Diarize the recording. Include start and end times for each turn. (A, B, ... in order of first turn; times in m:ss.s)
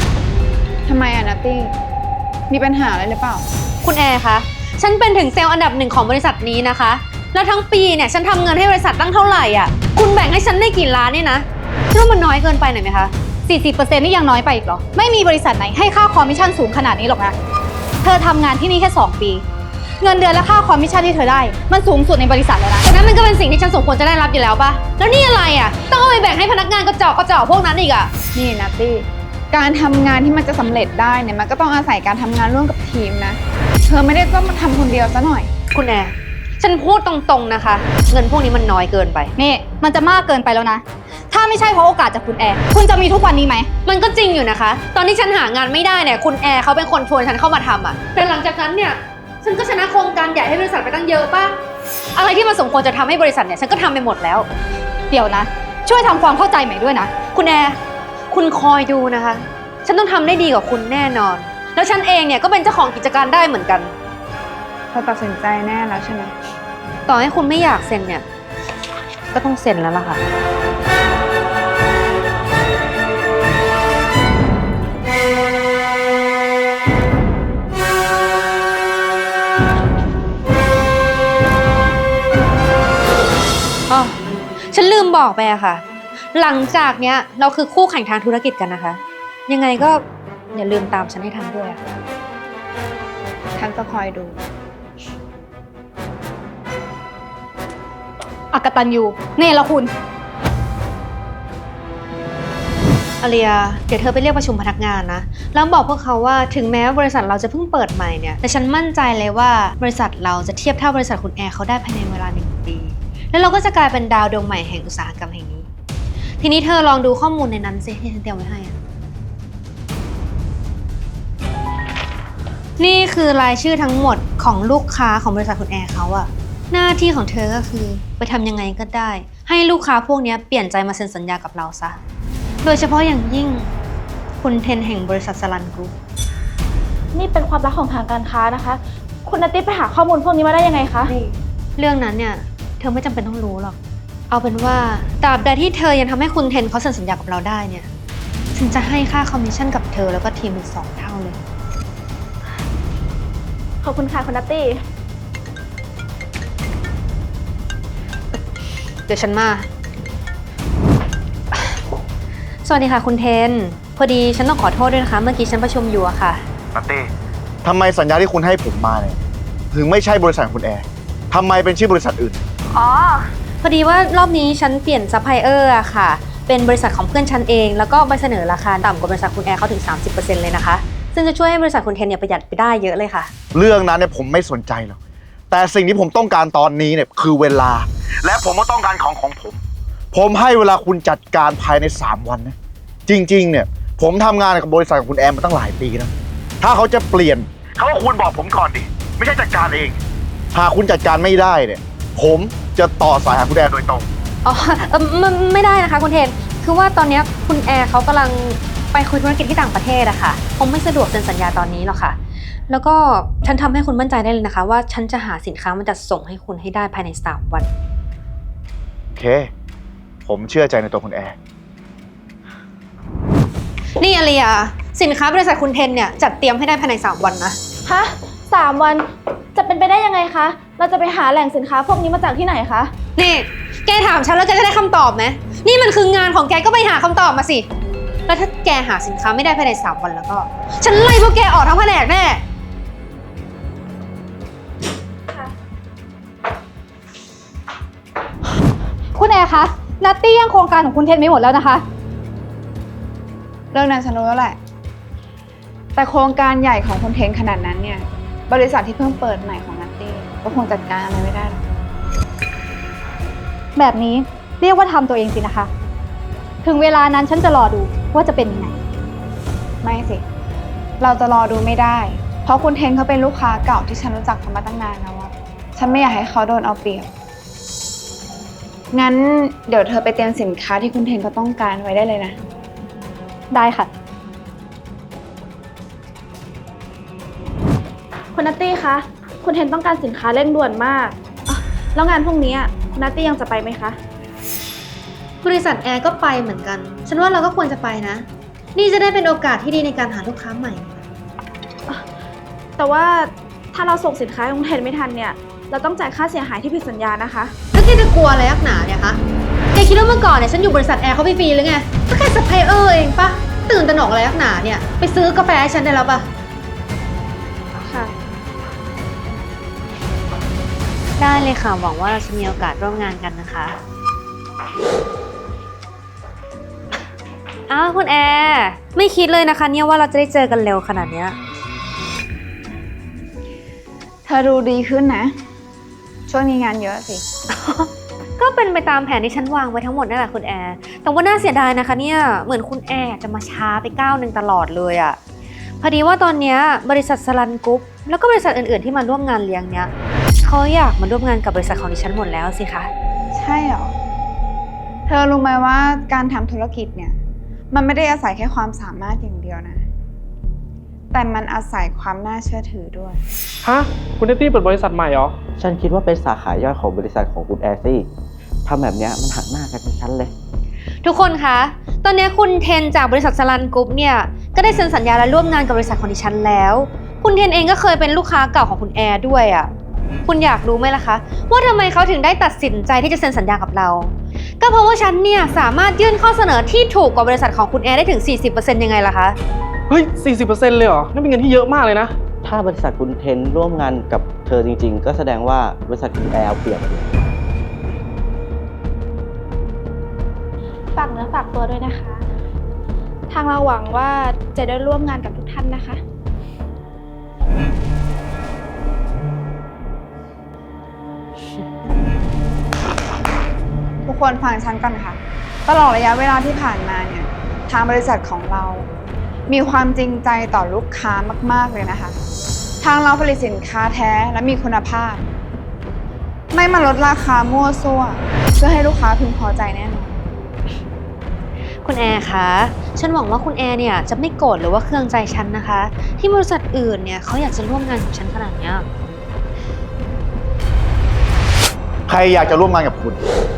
0:00.8-0:01.7 A
0:02.5-0:03.4 A
0:03.8-0:13.1 B
0:13.4-0:17.3 C
0:18.0-0:19.4 C
0:20.0-0:22.8 C
0:22.8-0:28.1 B
0:28.3-0:35.5 A
0:35.7-0:39.3 B
0:39.4-0:43.7 C
0:43.8-0:51.6 B
0:52.1-0:54.5 B
0:55.1-0:57.1 C
0:57.3-0:57.8 B
0:58.3-1:03.9 B
1:04.9-1:06.3 A
1:07.1-1:08.2 B
1:09.3-1:10.2 B
1:23.9-1:31.8 B
1:33.6-1:34.4 A
1:38.5-1:39.9 C
1:43.2-1:55.7 B
1:56.4-1:58.8 B
2:02.8-2:12.0 B
2:12.6-2:13.7 B
2:14.4-2:15.9 B
2:17.1-2:21.1 D
2:21.0-2:23.8 B
2:24.3-2:27.9 B
2:28.5-2:31.4 B
2:33.8-2:34.8 D
2:39.1-2:39.7 B
2:42.6-2:46.4 B
2:46.7-2:47.1 E
2:47.6-2:49.2 E
2:49.7-2:52.4 E
2:53.6-3:03.3 B
3:03.5-3:05.0 E
3:05.5-3:09.6 E
3:10.1-3:12.5 E
3:13.1-3:20.0 E
3:20.5-3:24.0 E
3:24.4-3:32.2 B
3:32.7-3:37.7 B
3:39.1-3:39.5 E
3:40.2-3:41.4 E
3:44.0-3:47.6 B
3:47.8-3:52.9 D
3:53.2-3:57.7 B
3:58.3-4:02.4 B
4:09.1-4:11.8 C
4:13.7-4:14.6 A
4:16.0-4:21.7 A
4:23.8-4:25.7 C
4:26.6-4:28.8 C
4:29.8-4:30.2 A
4:31.0-4:37.1 A
4:38.9-4:42.4 A
4:43.5-4:43.9 C
4:48.3-4:54.0 D
4:55.4-5:01.0 B
5:02.8-5:07.5 D
5:07.7-5:09.2 B
5:09.7-5:16.3 B
5:17.8-5:18.1 D
5:21.2-5:23.8 B
5:27.7-5:31.4 B
5:34.2-5:35.4 A
5:36.3-5:37.2 A
5:37.5-5:45.2 B
5:45.8-5:52.9 B
5:53.3-5:53.9 A
5:55.1-5:57.2 A
5:57.7-5:59.8 A
6:01.1-6:03.2 A
6:03.6-6:05.4 F
6:05.6-6:08.1 G
6:08.6-6:10.3 G
6:11.0-6:19.7 B
6:20.2-6:29.4 B
6:29.9-6:32.2 F
6:32.4-6:37.2 G
6:40.9-6:42.2 D
6:43.3-6:46.0 D
6:54.0-6:58.9 A
6:59.5-7:02.2 A
7:02.8-7:05.3 A
7:06.5-7:10.2 A
7:11.8-7:18.9 B
7:22.1-7:23.2 E